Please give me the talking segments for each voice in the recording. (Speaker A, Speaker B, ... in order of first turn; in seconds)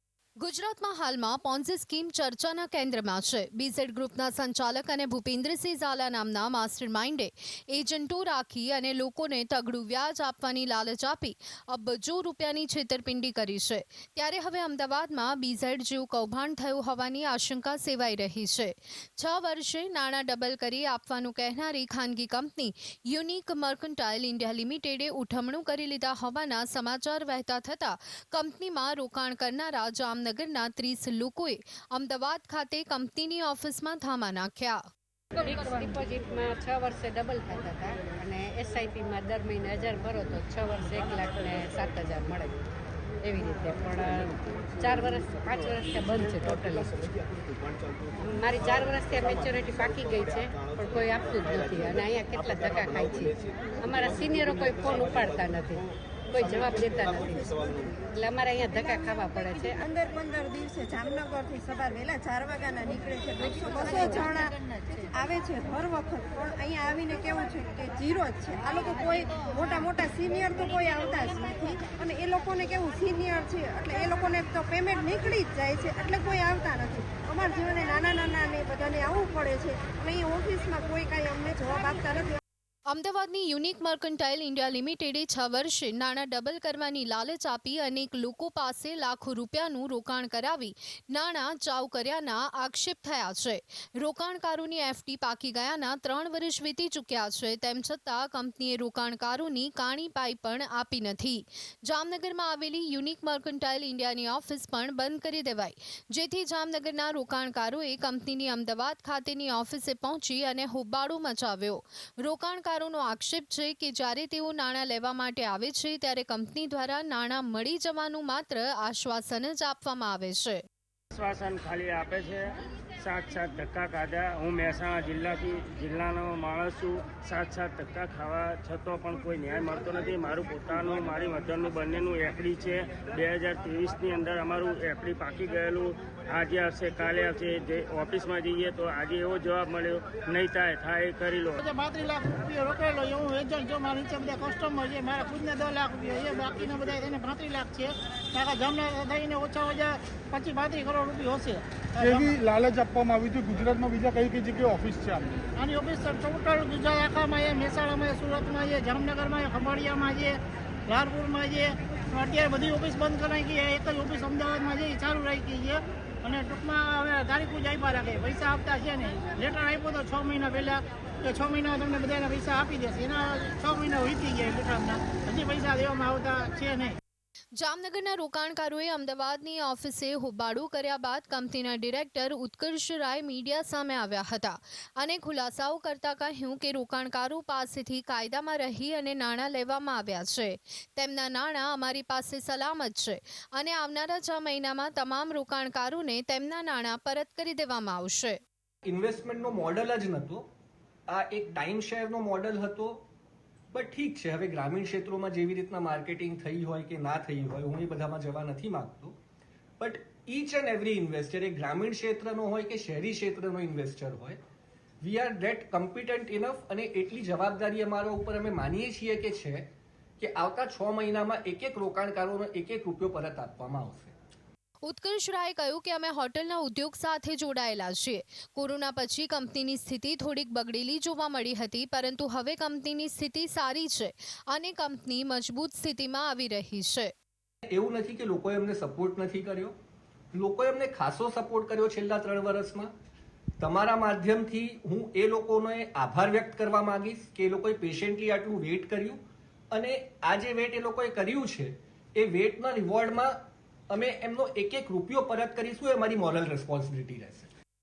Speaker A: 0.4-34.8, 82.9-120.6, 177.6-198.4, 224.8-237.1
Speaker B: 35.4-42.6, 43.2-46.9, 48.2-59.8
Speaker C: 56.3-56.6, 57.2-58.1, 58.7-64.5, 65.1-82.4
Speaker D: 121.1-141.6
Speaker E: 141.7-152.4, 155.6-160.4, 160.9-176.9
Speaker F: 152.0-155.3
Speaker G: 152.3-154.8, 198.9-200.4, 201.1-203.0, 203.7-209.2, 209.8-214.4, 215.0-219.6, 220.2-224.1, 237.7-239.7, 240.3-242.9, 243.6-249.2, 249.7-253.3, 253.9-257.5